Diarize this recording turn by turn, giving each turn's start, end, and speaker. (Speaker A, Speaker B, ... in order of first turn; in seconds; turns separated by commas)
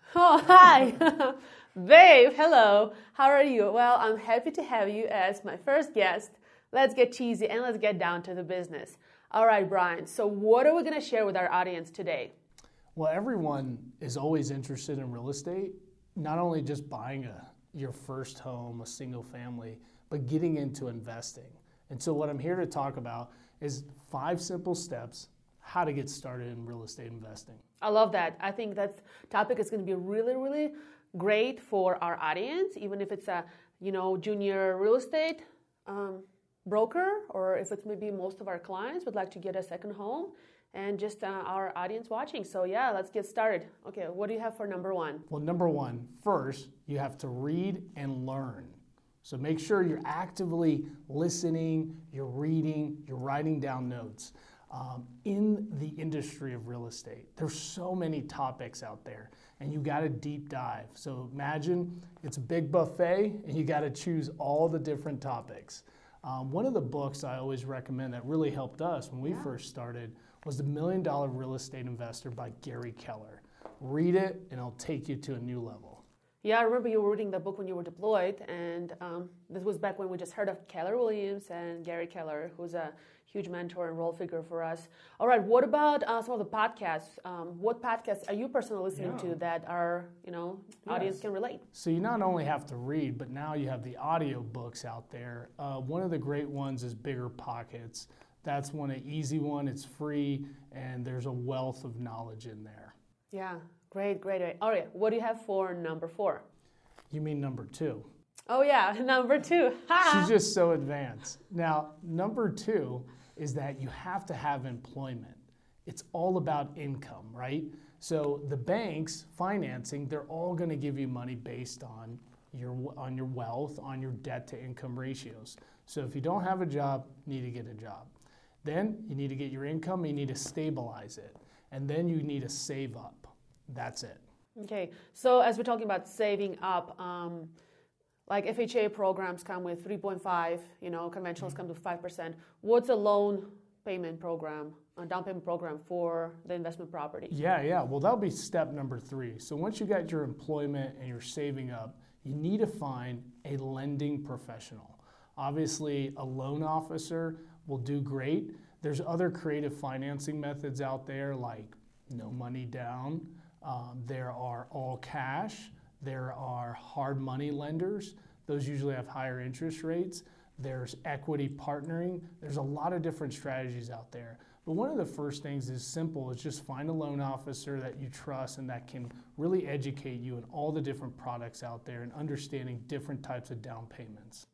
Speaker A: 0.1-12.3, Speaker B: 12.9-27.6, Speaker A: 27.8-45.2, Speaker B: 45.3-76.0, Speaker A: 69.2-69.5, Speaker A: 76.4-91.6, Speaker B: 89.0-89.3, Speaker B: 90.9-102.9, Speaker A: 103.3-106.4, Speaker B: 107.1-108.1, Speaker A: 108.5-110.3, Speaker B: 110.0-128.1, Speaker B: 128.6-134.2, Speaker A: 134.6-137.5, Speaker A: 138.3-147.3, Speaker B: 147.3-184.4